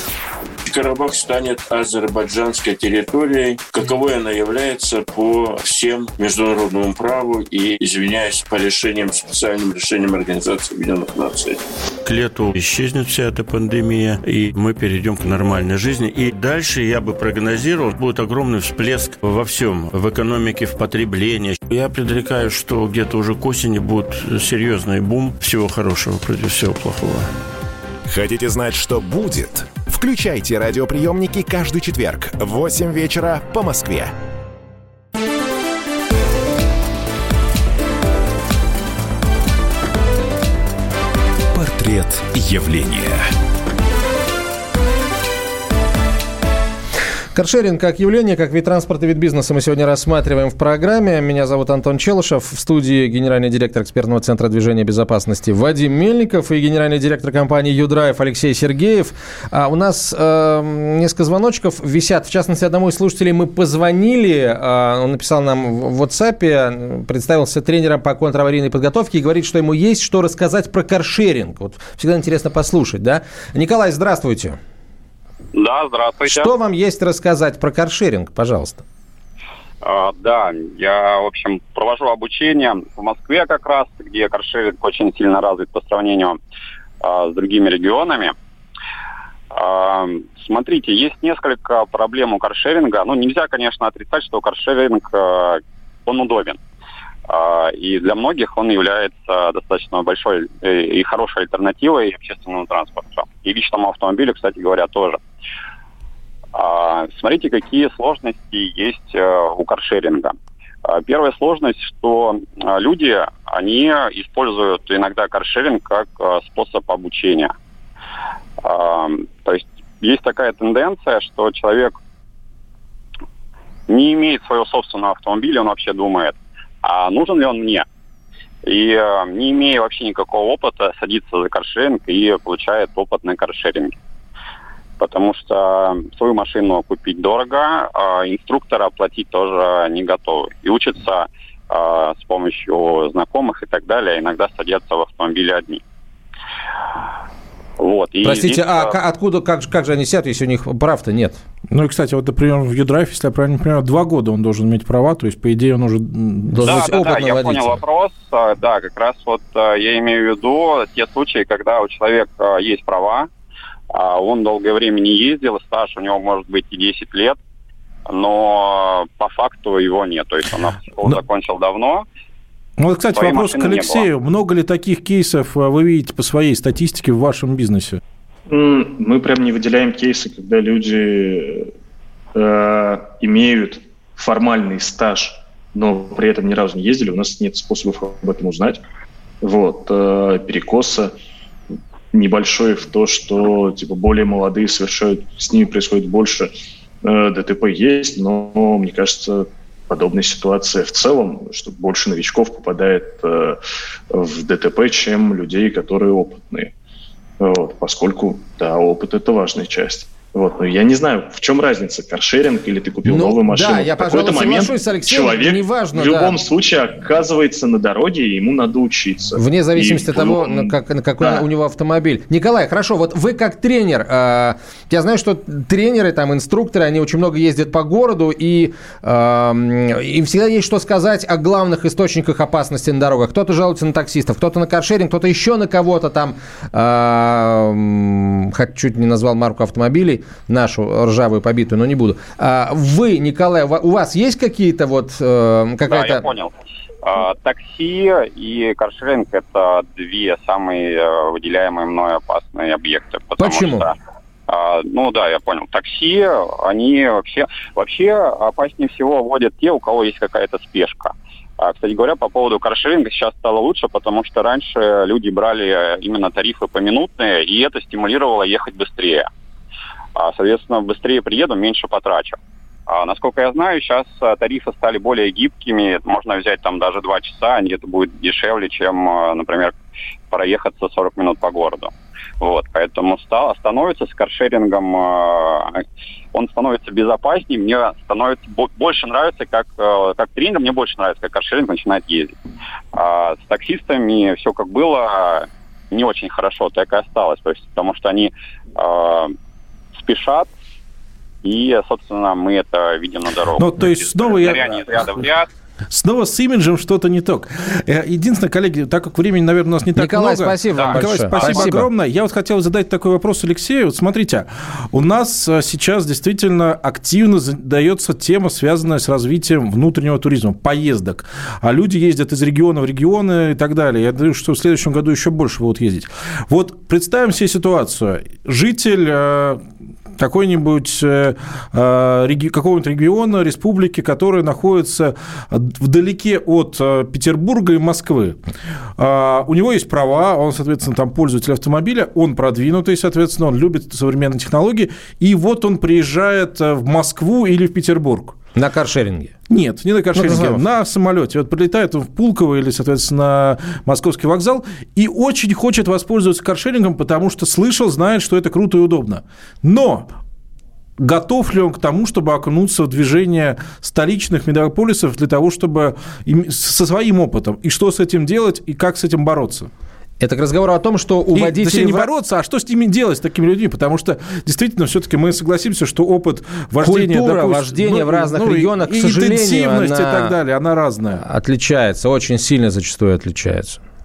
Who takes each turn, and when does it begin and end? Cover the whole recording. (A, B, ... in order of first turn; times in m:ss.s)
0:00.6-0:11.6 A
0:12.0-0:27.3 B
0:28.1-0:34.1 C
0:41.5-0:43.3 C
0:47.4-1:14.6 D
1:15.6-1:16.5 E
1:16.3-1:18.8 D
1:19.8-1:26.4 E
1:27.0-1:28.3 E
1:29.5-1:36.6 E
1:37.3-1:45.2 E
1:46.6-1:50.3 E
1:50.8-1:57.5 E
1:58.6-2:02.0 E
2:03.9-2:07.8 E
2:08.7-2:14.0 E
2:15.0-2:25.8 E
2:27.8-2:28.9 E
2:28.2-2:31.4 D
2:31.7-2:36.9 F
2:36.5-2:37.8 D
2:36.6-2:43.3 E
2:43.9-2:47.4 E
2:48.1-2:52.0 E
2:52.8-2:58.0 F
2:53.1-2:54.1 E
2:58.5-3:01.7 G
3:02.4-3:08.8 G
3:09.4-3:11.1 G
3:12.1-3:16.5 G
3:17.0-3:23.6 G
3:24.1-3:26.7 G
3:27.4-3:41.4 G
3:33.0-3:36.4 D
3:39.4-4:06.2 D
4:05.9-4:06.5 E
4:07.0-4:13.9 E
4:13.4-4:13.9 D
4:14.5-4:29.3 E
4:30.2-4:39.7 E
4:40.3-4:45.8 E
4:46.3-4:52.3 E
4:52.9-4:59.3 E
5:00.0-5:00.5 E
5:01.4-5:05.5 E
5:03.6-5:05.1 F
5:05.9-5:29.6 F
5:10.0-5:11.9 D
5:10.8-5:11.7 E
5:30.2-5:38.4 F
5:39.0-5:48.4 F
5:48.6-5:49.3 D
5:49.5-6:00.0 F
5:50.2-5:50.6 D
6:01.0-6:09.7 F
6:10.2-6:12.1 D
6:11.3-6:21.2 F
6:16.8-6:20.3 D
6:21.2-6:23.8 D